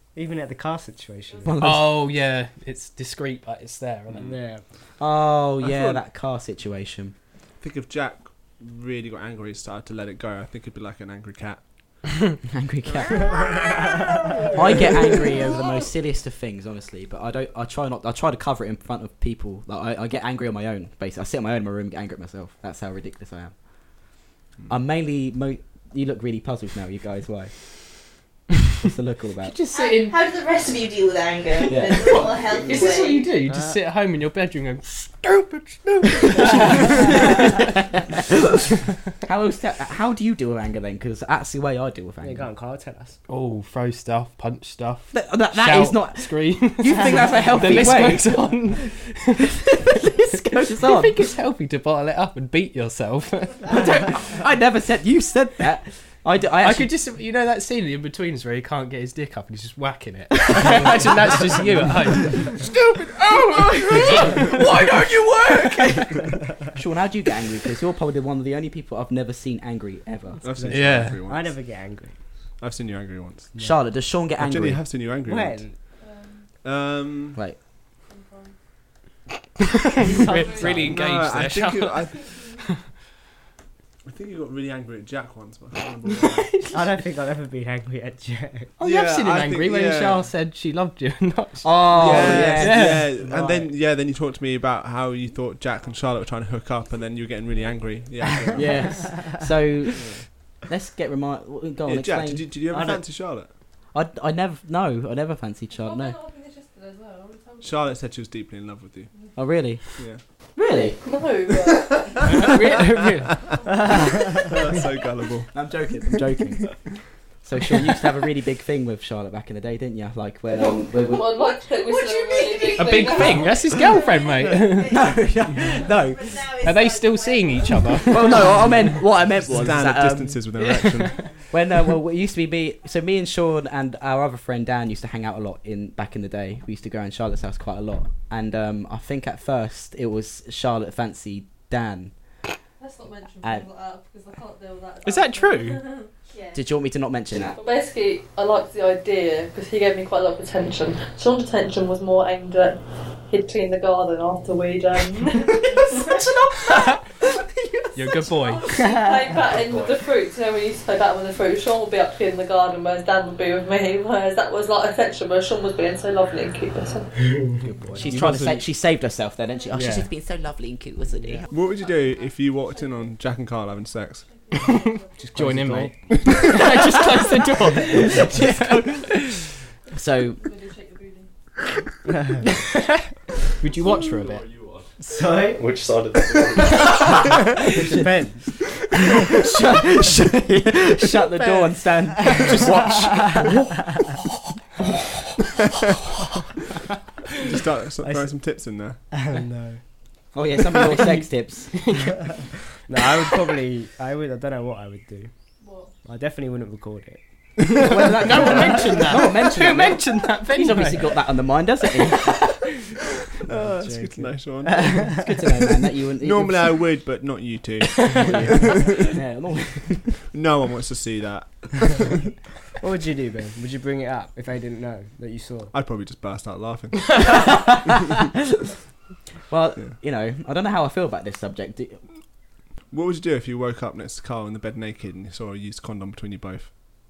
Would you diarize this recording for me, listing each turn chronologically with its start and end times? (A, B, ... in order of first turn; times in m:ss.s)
0:00.1-0:01.6 A
0:01.4-0:02.0 B
0:01.6-0:04.3 C
0:04.2-0:04.6 A
0:05.0-0:07.1 B
0:05.6-0:06.0 D
0:07.6-0:11.6 D
0:12.4-0:13.3 B
0:12.9-0:13.7 D
0:13.8-0:14.2 A
0:14.5-0:23.5 B
0:24.7-0:28.1 B
0:28.8-0:29.5 B
0:29.4-0:30.2 C
0:29.7-0:33.3 E
0:31.7-0:32.3 B
0:31.9-0:37.6 C
0:33.4-0:33.8 A
0:36.2-0:38.0 B
0:39.2-0:42.4 B
0:42.2-0:43.2 A
0:43.3-0:49.9 C
0:45.1-0:48.3 B
0:49.6-0:51.1 B
0:50.7-0:54.2 C
0:53.7-0:56.9 B
0:56.6-1:02.8 C
1:00.6-1:01.2 B
1:02.7-1:10.4 B
1:03.8-1:04.5 C
1:10.4-1:11.6 D
1:10.4-1:12.2 A
1:10.7-1:11.2 C
1:12.6-1:13.6 D
1:13.6-1:14.8 B
1:14.4-1:15.7 D
1:15.2-1:15.8 A
1:16.6-1:17.4 D
1:18.1-1:18.5 F
1:19.9-1:22.8 C
1:20.0-1:20.8 A
1:20.3-1:20.7 F
1:20.8-1:22.3 D
1:24.0-1:26.6 D
1:26.3-1:26.7 C
1:26.7-1:28.7 A
1:28.8-1:33.1 C
1:28.8-1:30.3 D
1:31.6-1:33.0 B
1:32.0-1:39.1 D
1:33.1-1:33.7 A
1:38.5-1:40.1 B
1:40.0-1:40.2 D
1:40.7-1:42.5 B
1:41.8-1:43.5 D
1:42.7-1:43.0 A
1:43.9-1:46.2 B
1:45.9-1:47.7 F
1:47.6-1:49.1 D
1:49.3-1:49.8 B
1:49.9-1:50.2 D
1:50.6-1:51.0 B
1:51.0-1:52.6 F
1:51.6-1:55.5 D
1:52.2-1:53.5 C
1:55.5-2:01.3 B
2:01.0-2:03.7 F
2:02.1-2:03.4 E
2:02.7-2:05.0 C
2:02.8-2:03.7 B
2:04.5-2:05.2 E
2:04.7-2:06.5 B
2:06.1-2:08.5 E
2:06.6-2:08.5 C
2:08.1-2:10.5 B
2:09.3-2:11.2 D
2:10.6-2:11.2 C
2:11.5-2:22.1 B
2:22.8-2:26.1 F
2:25.0-2:25.8 C
2:26.5-2:27.6 B
2:27.5-2:36.1 F
2:35.9-2:37.0 E
2:37.9-2:38.7 C
2:38.3-2:47.2 F
2:47.6-2:48.4 A
2:48.0-2:51.4 B
2:48.0-2:48.4 D
2:49.7-2:50.1 A
2:51.5-2:54.2 D
2:54.6-2:59.4 C
2:55.2-2:55.9 A
2:56.2-2:56.5 D
2:58.0-2:59.2 B
2:59.9-3:00.4 B
3:00.6-3:01.3 F
3:03.6-3:04.6 C
3:05.0-3:05.7 A
3:06.0-3:07.1 B
3:07.6-3:08.4 A
3:07.8-3:08.0 B
3:09.1-3:13.4 B
3:12.4-3:13.5 C
3:17.4-3:19.0 D
3:18.0-3:18.3 A
3:19.1-3:19.8 A
3:20.3-3:21.8 B
3:21.8-3:22.1 C
3:22.9-3:25.3 A
3:26.0-3:27.2 A
3:27.7-3:32.4 B
3:27.8-3:31.2 C
3:33.4-3:35.2 D
3:33.5-3:35.2 A
3:34.9-3:36.8 B
3:36.2-3:38.9 D
3:38.0-3:38.3 C
3:38.0-3:40.2 B
3:40.3-3:42.3 D
3:42.8-3:45.7 A
3:45.7-3:47.5 D
3:47.2-3:48.3 B
3:49.5-3:52.0 B
3:52.9-3:56.7 D